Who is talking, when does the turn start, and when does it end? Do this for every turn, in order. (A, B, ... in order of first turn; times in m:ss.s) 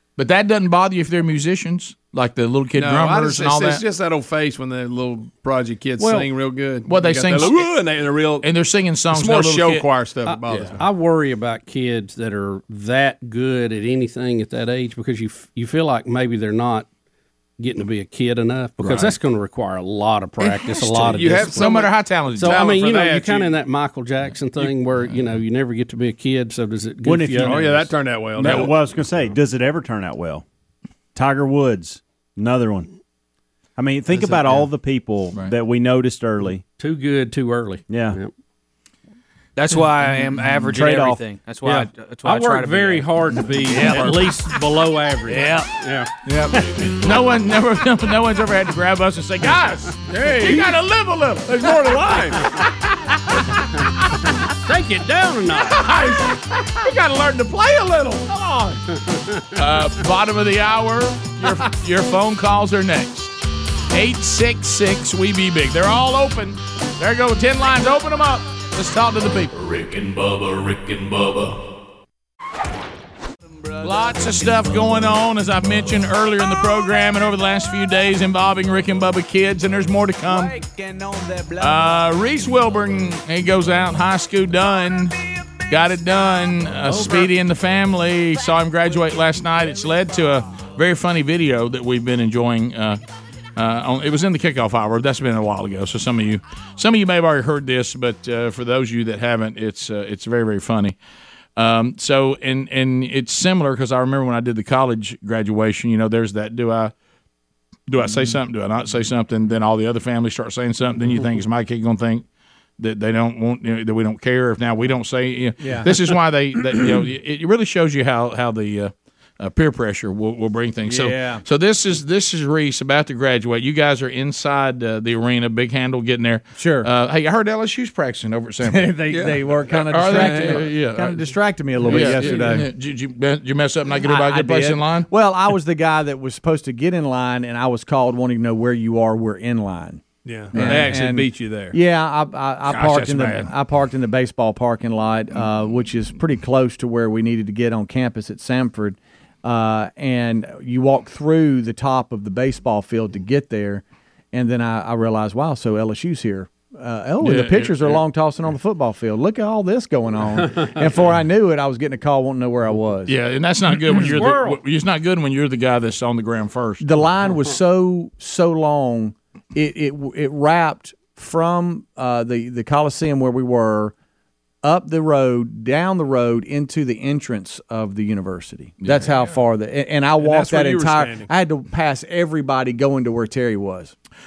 0:00.2-0:03.8 A
0:02.7-0:10.8 B
0:06.8-0:10.8 A
0:10.3-0:16.9 C
0:17.6-0:27.8 C
0:18.8-0:19.2 A
0:20.4-0:22.7 A
0:21.0-0:23.6 B
0:27.0-0:30.4 D
0:27.4-0:28.8 B
0:28.4-0:28.7 A
0:31.2-0:32.9 D
0:33.8-0:36.6 D
0:36.8-0:38.3 C
0:37.9-0:38.2 D
0:39.6-0:44.6 E
0:40.8-0:41.2 D
0:41.6-0:46.1 C
0:45.3-0:45.7 E
0:46.3-0:52.2 A
0:50.1-0:50.8 B
0:51.4-0:52.6 B
0:52.8-0:53.7 A
0:54.4-0:55.9 C
0:55.6-0:58.6 A
0:59.0-0:59.4 C
0:59.6-1:03.3 A
1:03.9-1:09.5 A
1:09.5-1:11.6 F
1:13.6-1:14.4 E
1:13.8-1:20.6 A
1:20.2-1:22.1 E
1:21.6-1:25.2 A
1:25.7-1:33.0 A
1:33.6-1:41.0 A
1:41.6-1:46.9 A
1:47.9-1:52.2 A
1:52.8-2:09.0 A
1:55.6-1:56.0 G
2:00.9-2:01.4 G
2:06.6-2:06.9 G
2:08.6-2:12.7 G
2:09.1-2:10.8 B
2:09.8-2:15.1 A
2:11.9-2:12.6 B
2:14.0-2:43.2 G
2:20.2-2:21.8 B
2:20.5-2:20.9 A
2:22.7-2:23.5 B
2:37.3-2:37.7 A
2:43.1-2:46.8 A
2:44.0-2:44.6 C
2:46.8-2:53.9 G
2:54.6-3:04.0 G
2:58.8-2:59.2 A
3:00.2-3:01.3 B